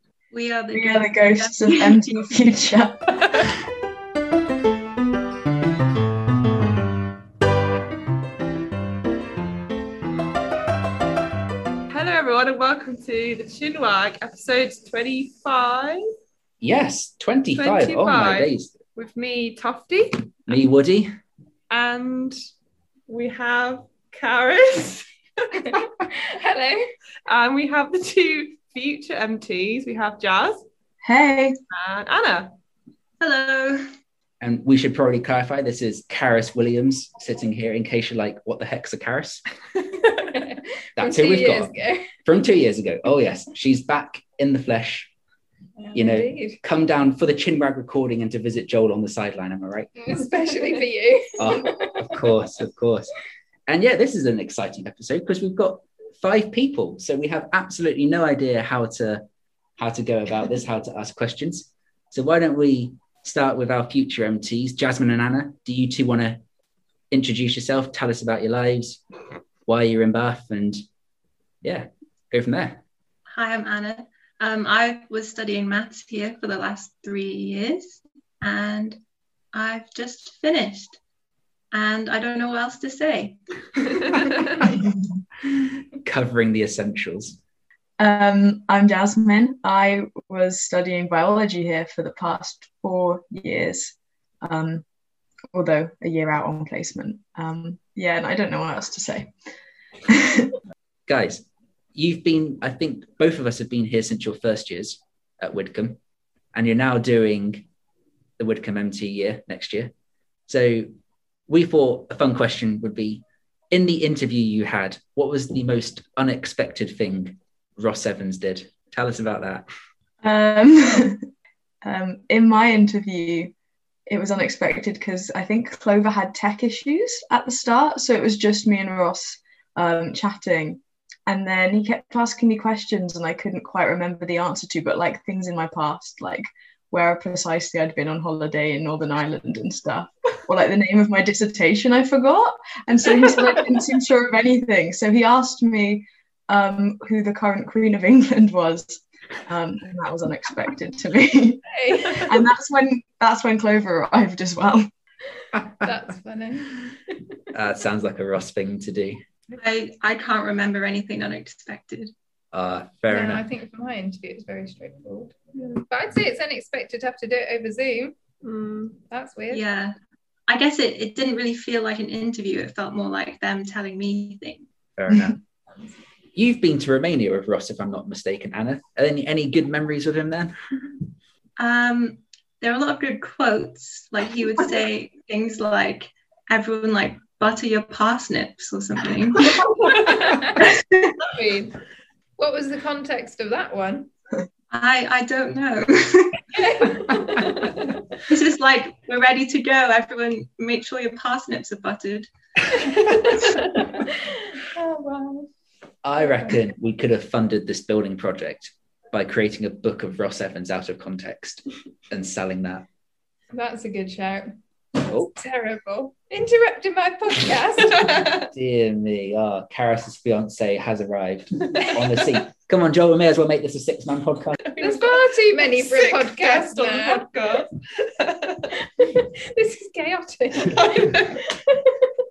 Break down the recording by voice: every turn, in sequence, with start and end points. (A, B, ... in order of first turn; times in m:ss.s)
0:00.3-0:02.3 A
0:00.7-0:03.0 B
0:11.9-0:16.0 C
0:16.6-0:18.7 D
0:17.5-0:20.3 C
0:20.5-0:21.1 D
0:21.7-0:22.3 C
0:23.1-0:25.6 C
0:25.7-0:26.8 E
0:27.2-0:30.6 C
0:31.0-0:31.5 B
0:31.7-0:32.6 C
0:33.2-0:33.8 A
0:34.4-0:39.4 D
0:40.2-0:42.1 E
0:41.0-0:41.7 D
0:42.2-0:45.1 D
0:45.8-0:46.6 E
0:45.9-0:49.9 D
0:50.0-0:52.1 E
0:51.4-0:53.1 D
0:53.7-0:59.2 D
0:59.8-1:06.4 D
1:07.1-1:09.0 D
1:09.7-1:10.8 D
1:11.6-1:12.8 D
1:13.3-1:19.0 A
1:19.5-1:21.0 A
1:21.7-1:23.4 A
1:26.0-1:27.4 D
1:28.0-1:34.8 B
1:35.5-1:39.3 B
1:40.1-1:40.5 B
1:41.1-1:46.0 D
1:46.5-1:47.6 D
1:48.4-1:49.9 D
1:50.5-1:50.9 D
1:51.5-1:59.6 D
2:00.2-2:01.2 B
2:01.8-2:03.5 B
2:04.1-2:34.9 B
2:31.7-2:32.3 E
2:35.7-2:37.0 E
2:37.5-2:39.2 D
2:39.6-2:42.1 A
2:42.5-2:43.4 D
2:43.1-2:48.2 E
2:48.4-2:49.0 C
2:49.1-2:49.6 E
2:49.5-2:49.9 A
2:50.5-2:54.7 A
2:55.0-2:55.4 D
2:56.3-3:00.5 D
3:01.6-3:09.7 A
3:09.9-3:10.7 E
3:11.2-3:11.7 E
3:12.4-3:14.1 E
3:14.7-3:16.4 A
3:16.5-3:17.8 E
3:18.3-3:22.3 A
3:23.3-3:25.5 E
3:26.0-3:32.8 D
3:26.2-3:26.6 E
3:33.5-3:34.5 E
3:35.0-3:35.3 D
3:35.3-3:38.2 E
3:38.4-3:44.6 D
3:44.7-3:48.8 C
3:44.8-3:47.2 E
3:49.0-3:51.9 E
3:50.8-3:51.2 C